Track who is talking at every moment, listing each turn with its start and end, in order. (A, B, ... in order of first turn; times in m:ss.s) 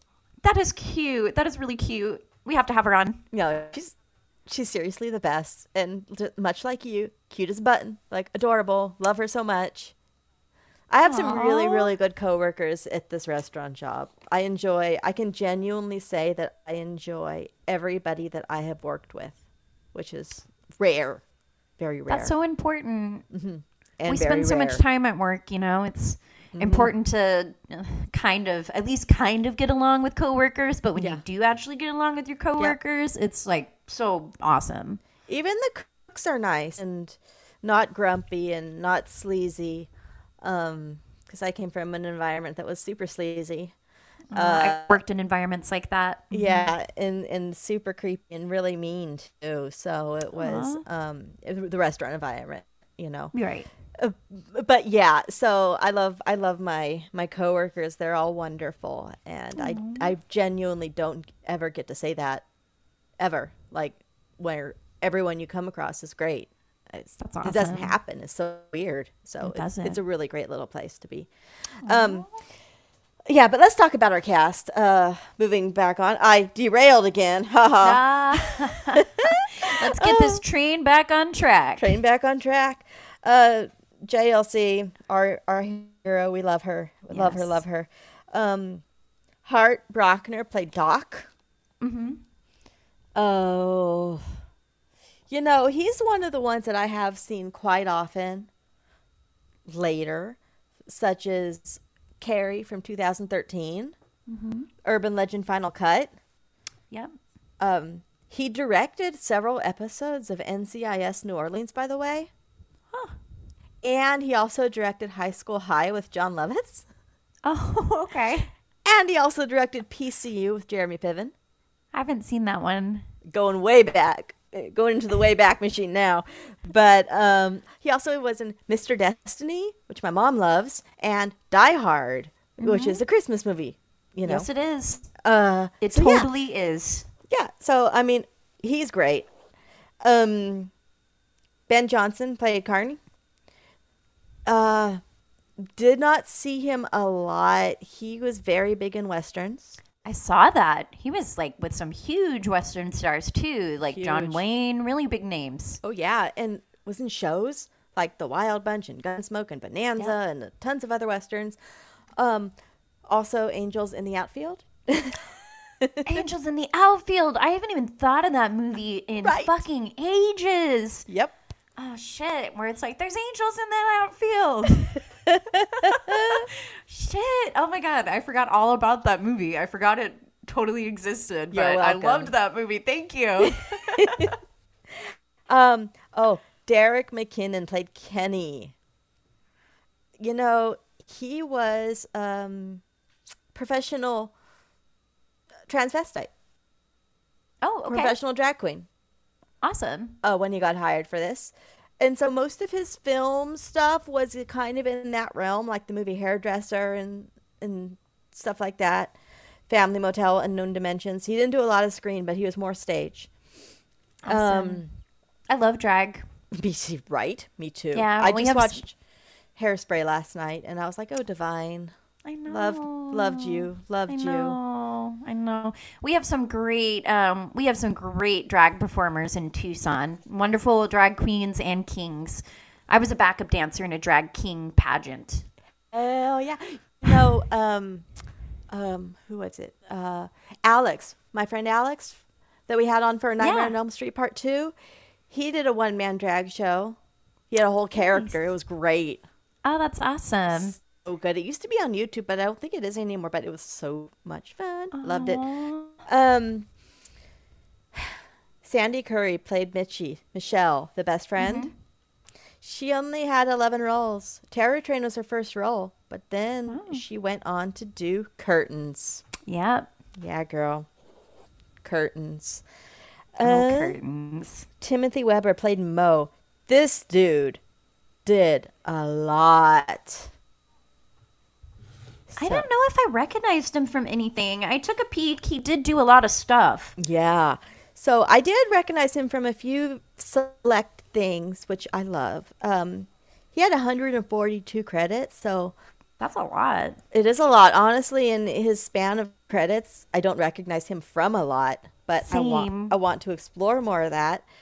0:00.4-0:03.2 A
0:03.3-0:09.9 B
0:10.9-0:19.4 B
0:11.0-0:11.9 A
0:19.9-0:21.2 B
0:21.8-0:22.3 B
0:22.1-0:23.2 A
0:23.3-0:24.8 B
0:24.1-0:35.0 A
0:26.6-0:26.9 B
0:31.0-0:31.2 B
0:35.3-0:39.9 B
0:40.4-0:43.7 B
0:44.3-0:46.7 A
0:44.3-0:45.0 B
0:46.3-0:53.3 B
0:50.4-0:50.8 A
0:53.3-0:53.7 A
0:54.0-1:02.4 B
0:59.6-1:00.1 A
1:03.2-1:11.3 B
1:07.2-1:07.9 A
1:09.4-1:10.0 A
1:11.8-1:12.3 A
1:11.8-1:12.3 B
1:13.3-1:20.4 B
1:17.8-1:19.0 A
1:19.6-1:22.0 A
1:21.8-1:28.8 B
1:27.1-1:27.6 A
1:29.4-1:31.3 B
1:31.8-1:32.2 A
1:33.2-1:34.4 B
1:35.3-1:38.5 B
1:39.7-1:44.0 B
1:44.3-1:44.7 A
1:44.8-1:46.2 B
1:47.6-1:52.3 B
1:53.8-1:56.9 B
1:57.4-1:58.5 A
1:58.8-2:01.3 B
2:01.9-2:03.0 A
2:03.3-2:14.5 B
2:12.6-2:13.0 A
2:14.2-2:15.1 A
2:15.2-2:16.3 B
2:15.8-2:17.1 A
2:17.3-2:19.3 B
2:20.0-2:20.7 B
2:21.7-2:23.0 B
2:24.5-2:25.0 B
2:25.6-2:29.8 B
2:30.0-2:35.8 A
2:33.9-2:34.4 B
2:35.8-2:41.6 B
2:42.2-2:42.5 B
2:43.1-2:45.2 B
2:45.8-2:46.2 B
2:46.1-2:51.1 A
2:49.2-2:49.5 B
2:51.1-2:51.4 B
2:51.8-2:55.0 A
2:55.3-2:56.5 B
2:56.9-3:04.4 A
3:01.5-3:02.3 B
3:03.4-3:04.3 B
3:05.5-3:08.7 B
3:10.2-3:12.8 B
3:13.5-3:14.3 B
3:15.7-3:16.3 B
3:17.6-3:18.1 A
3:17.9-3:18.9 B
3:19.6-3:20.2 A
3:20.2-3:29.1 B
3:29.7-3:33.3 B
3:34.2-3:34.8 A
3:34.3-3:34.9 B
3:35.5-3:36.2 A
3:36.5-3:39.0 B
3:37.9-3:38.8 A
3:39.6-3:41.9 B
3:42.3-3:55.5 A
3:42.5-3:44.6 B
3:55.9-3:58.1 B
3:58.7-4:04.8 B
4:03.4-4:03.8 A
4:05.3-4:07.0 B
4:07.5-4:09.2 B
4:08.0-4:08.4 A
4:09.6-4:10.8 A
4:10.5-4:15.4 B
4:14.9-4:15.9 A
4:16.1-4:16.7 B
4:18.0-4:21.7 B
4:21.4-4:21.7 A
4:22.6-4:29.3 B
4:26.7-4:27.0 A
4:29.5-4:29.9 A
4:30.2-4:30.9 B
4:31.8-4:32.6 B
4:33.4-4:34.0 B
4:33.4-4:34.7 A
4:34.8-4:37.6 B
4:38.2-4:40.3 B
4:42.3-4:42.7 B
4:42.4-4:47.0 A
4:47.0-4:55.8 B
4:56.2-4:57.0 A
4:57.1-5:04.4 B
5:02.3-5:02.9 A